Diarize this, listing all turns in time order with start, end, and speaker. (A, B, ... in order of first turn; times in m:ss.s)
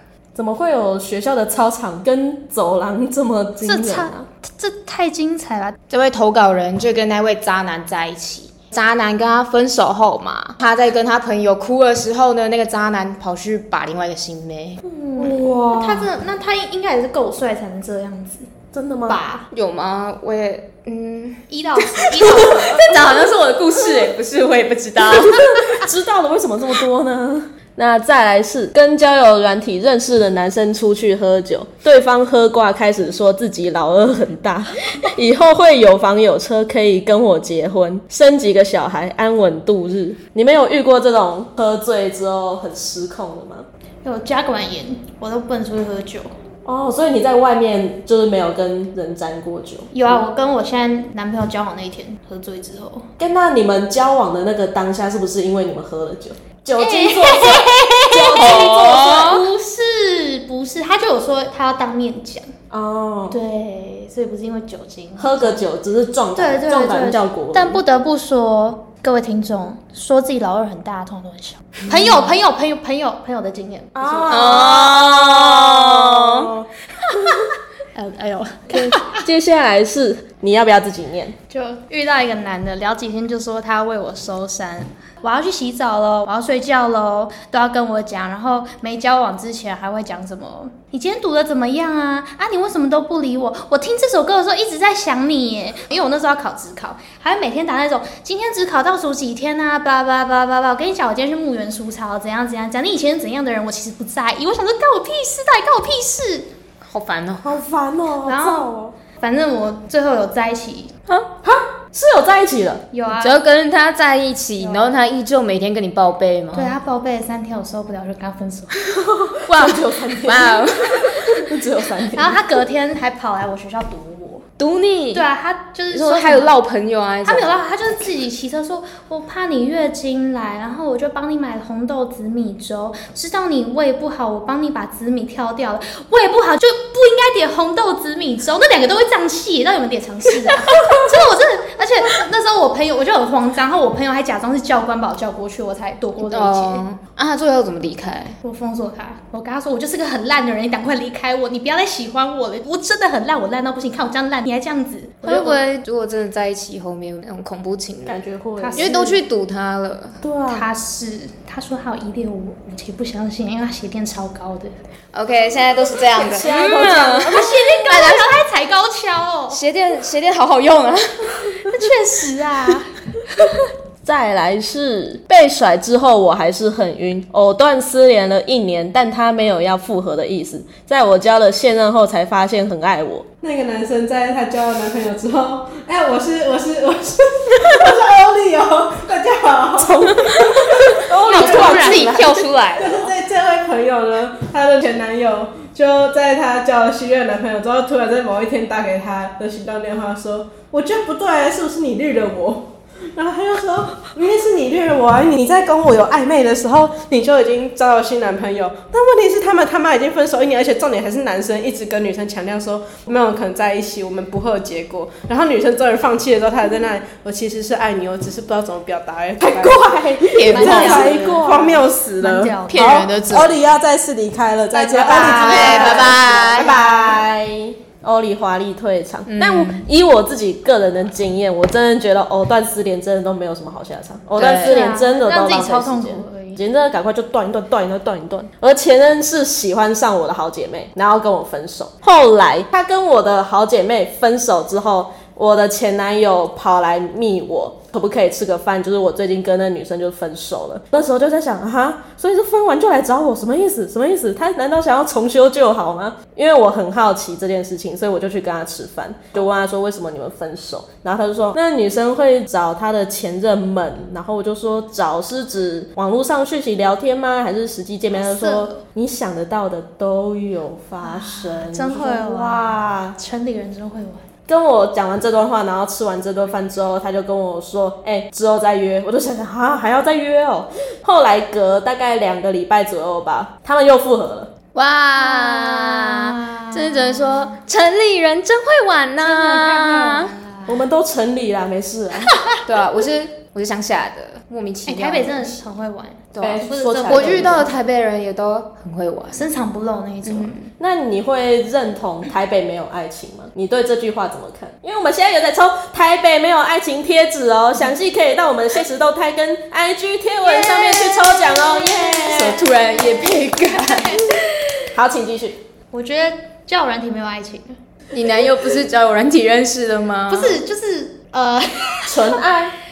0:00.3-0:04.3 A
0:03.6-0:05.8 B
0:05.9-0:14.8 C
0:14.8-0:18.5 B
0:15.2-0:16.1 A
0:18.7-0:19.2 A
0:19.1-0:19.5 B
0:19.5-0:25.8 C
0:21.5-0:23.1 B
0:25.7-0:43.6 A
0:44.0-0:46.3 B
0:46.6-0:50.2 A
0:49.9-0:53.1 B
0:53.2-0:59.3 A
0:56.8-1:02.5 B
0:58.3-0:59.4 C
1:02.7-1:03.4 A
1:03.3-1:05.6 B
1:05.2-1:07.8 A
1:06.4-1:14.8 B
1:11.9-1:12.3 C
1:13.9-1:17.5 A
1:14.3-1:16.5 C
1:17.9-1:19.2 B
1:18.7-1:21.3 A
1:21.5-1:46.5 B
1:46.8-1:47.6 C
1:47.4-1:48.9 A
1:48.2-1:50.9 B
1:51.4-1:52.8 A
1:52.9-1:53.4 B
1:53.1-1:56.8 C
1:54.6-1:55.0 B
1:56.5-1:58.8 B
1:58.9-2:02.6 A
1:59.5-2:01.4 C
2:02.1-2:04.4 B
2:04.6-2:05.3 C
2:05.1-2:06.5 B
2:05.9-2:07.6 C
2:07.2-2:26.8 B
2:20.8-2:21.1 A
2:26.2-2:28.4 C
2:28.4-2:35.6 B
2:35.2-2:38.2 C
2:38.0-2:39.2 A
2:38.6-2:39.0 B
2:38.7-2:40.2 C
2:40.2-2:40.7 A
2:40.5-2:44.7 B
2:45.1-2:48.3 C
2:46.2-2:47.6 A
2:47.2-2:49.6 B
2:49.5-2:51.3 C
2:51.6-2:52.9 B
2:54.0-3:03.3 A
3:03.4-3:10.0 D
3:09.8-3:12.8 A
3:10.1-3:13.1 C
3:10.9-3:12.1 D
3:11.2-3:12.4 B
3:12.8-3:39.8 D
3:39.4-3:41.8 A
3:40.3-3:41.4 C
3:40.5-3:42.6 D
3:40.6-3:43.0 B
3:42.7-3:43.6 C
3:42.8-3:43.7 A
3:43.3-3:47.0 D
3:44.7-3:46.8 C
3:44.9-4:33.2 A
3:45.4-3:46.5 B
3:49.3-3:49.8 C
3:54.4-3:54.9 C
3:54.4-3:56.6 B
4:28.1-4:28.8 B
4:31.0-4:34.2 B
4:34.5-4:44.5 A
4:44.7-4:50.4 C
4:45.2-4:47.5 B
4:49.2-4:50.8 B
4:50.7-4:52.3 A
4:52.3-4:52.6 B
4:52.6-4:55.6 C
4:54.8-4:57.7 B
4:56.3-4:59.5 C
4:56.4-4:57.7 A
4:59.3-5:00.5 B
5:00.2-5:00.7 C
5:00.8-5:12.7 A
5:10.4-5:11.3 C
5:11.5-5:14.4 B
5:12.2-5:14.5 C
5:14.9-5:15.6 A
5:15.9-5:17.8 B
5:18.1-5:20.6 C
5:20.3-5:22.4 B
5:22.1-5:22.7 A